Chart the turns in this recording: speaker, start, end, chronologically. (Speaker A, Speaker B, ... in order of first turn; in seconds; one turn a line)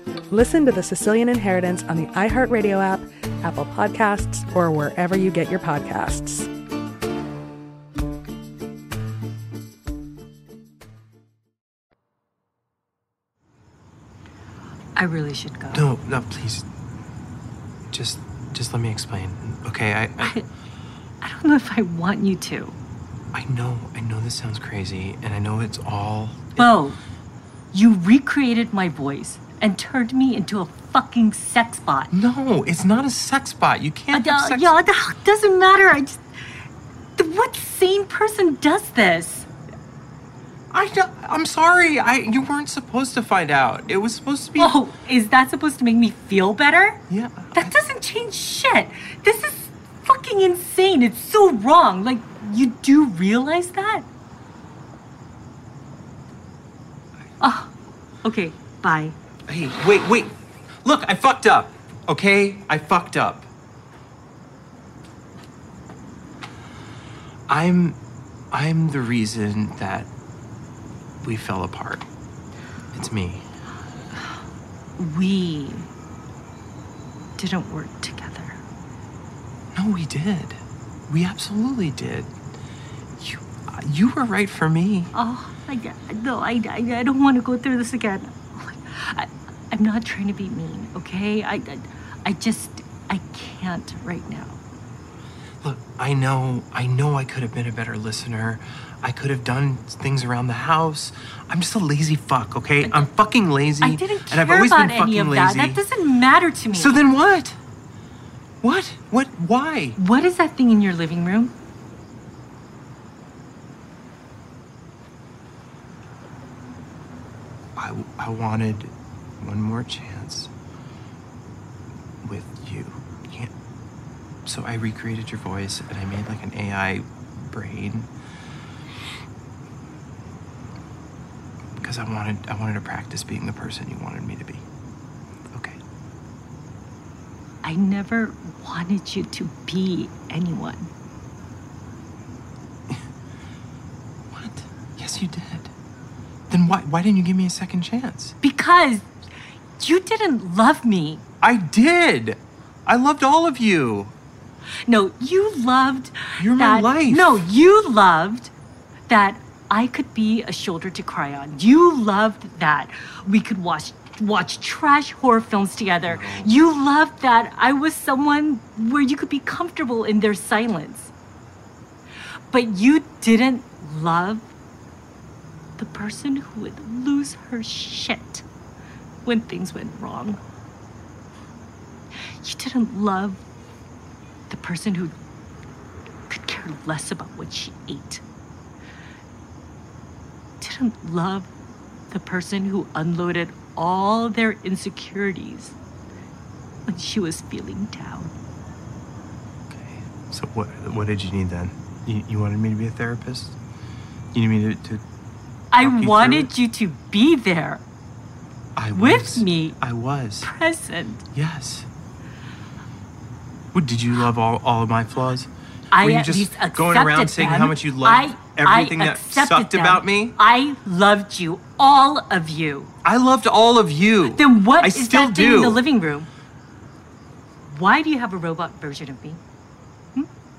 Speaker A: 0.3-6.5
Speaker B: 15.0-15.9
Speaker C: 15.7-16.7
Speaker C: 17.9-20.4
Speaker B: 20.2-20.5
Speaker B: 21.2-22.8
Speaker C: 23.3-26.7
Speaker B: 26.6-27.0
Speaker B: 27.7-32.1
Speaker C: 32.1-34.8
Speaker B: 34.1-36.2
Speaker B: 37.2-39.5
Speaker C: 40.7-44.8
Speaker B: 44.6-47.0
Speaker C: 47.1-47.8
Speaker B: 47.5-54.1
Speaker B: 57.4-57.7
Speaker B: 58.2-59.2
Speaker C: 59.5-63.5
Speaker C: 67.5-68.0
Speaker C: 68.5-70.1
Speaker C: 71.2-72.0
Speaker C: 72.9-73.5
Speaker B: 75.0-75.9
Speaker B: 77.4-78.6
Speaker C: 79.7-82.3
Speaker C: 83.2-85.1
Speaker B: 85.1-94.6
Speaker C: 95.6-105.8
Speaker B: 102.8-103.1
Speaker B: 103.8-107.0
Speaker C: 106.7-107.6
Speaker C: 108.6-110.0
Speaker B: 110.0-111.5
Speaker C: 117.8-120.5
Speaker C: 122.2-123.5
Speaker C: 124.5-128.1
Speaker C: 131.8-134.6
Speaker C: 135.5-135.8
Speaker B: 137.6-140.9
Speaker C: 144.3-145.7
Speaker C: 146.5-148.3
Speaker B: 148.4-149.1
Speaker B: 149.8-151.2
Speaker C: 151.4-154.1
Speaker B: 154.9-158.5
Speaker C: 156.4-157.5
Speaker B: 159.1-171.1
Speaker C: 166.1-166.5
Speaker B: 172.5-174.5
Speaker B: 175.8-178.4
Speaker B: 179.2-180.4
Speaker B: 182.4-183.4
Speaker B: 184.5-185.2
Speaker B: 186.3-188.2
Speaker B: 190.6-191.5
Speaker B: 192.1-195.8
Speaker B: 196.9-198.3
Speaker C: 199.7-203.6
Speaker C: 204.3-205.0
Speaker B: 205.7-207.8
Speaker C: 205.8-206.5
Speaker C: 208.8-210.5
Speaker B: 208.9-209.8
Speaker B: 210.4-211.3
Speaker C: 211.3-211.9
Speaker C: 213.7-220.3
Speaker B: 215.9-222.9
Speaker C: 223.0-225.8
Speaker B: 224.2-226.3
Speaker B: 227.7-229.4